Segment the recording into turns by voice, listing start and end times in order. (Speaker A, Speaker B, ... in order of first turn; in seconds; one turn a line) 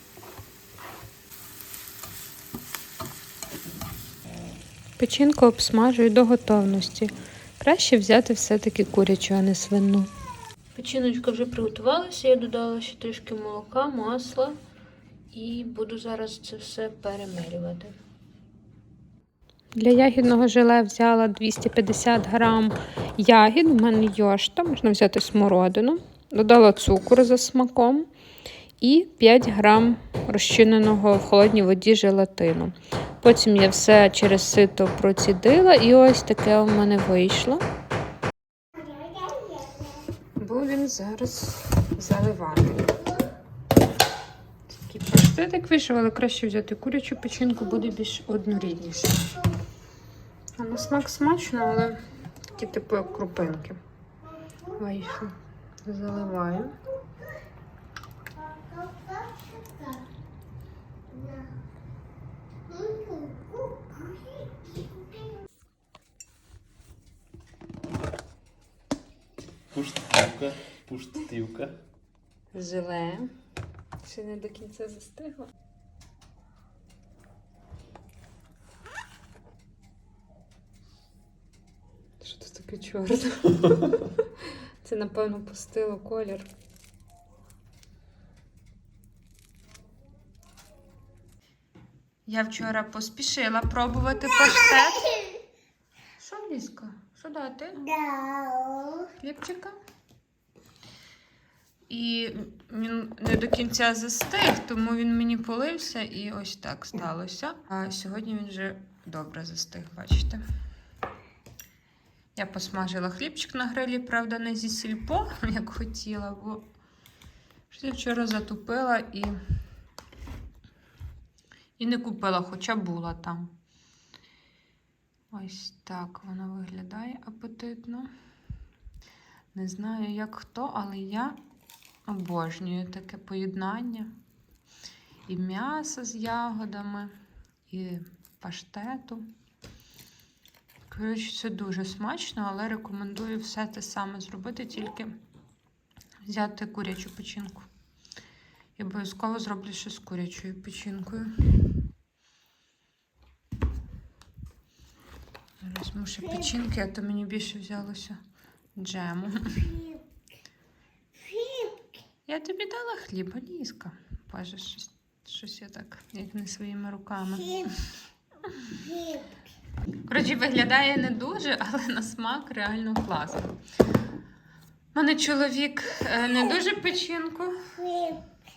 Speaker A: 5.0-10.1
Speaker A: 10.8-14.6
Speaker A: 15.3-17.9
Speaker A: 19.8-28.1
Speaker A: 28.8-37.6
Speaker A: 40.4-43.1
Speaker A: 44.7-49.4
Speaker A: 50.6-52.0
Speaker A: 52.5-53.8
Speaker A: 54.7-56.8
Speaker B: 58.6-60.0
Speaker B: 61.1-61.5
Speaker B: 62.7-64.5
Speaker C: 69.7-71.8
Speaker A: 72.5-73.3
Speaker A: 74.0-75.5
Speaker A: 82.2-86.5
Speaker A: 92.3-95.3
Speaker A: 96.2-98.0
Speaker B: 98.0-98.9
Speaker A: 99.0-99.8
Speaker A: 101.9-110.4
Speaker A: 112.3-116.7
Speaker A: 117.7-119.4
Speaker A: 121.8-123.5
Speaker A: 125.3-128.1
Speaker A: 129.5-131.4
Speaker A: 132.1-134.1
Speaker A: 135.3-137.2
Speaker A: 137.7-139.3
Speaker A: 140.9-145.2
Speaker A: 146.2-147.7
Speaker A: 148.8-151.7
Speaker A: 155.6-158.2
Speaker A: 158.8-160.0
Speaker B: 161.3-161.7
Speaker A: 162.3-167.8
Speaker A: 168.5-168.8
Speaker A: 170.1-173.6
Speaker A: 174.9-178.2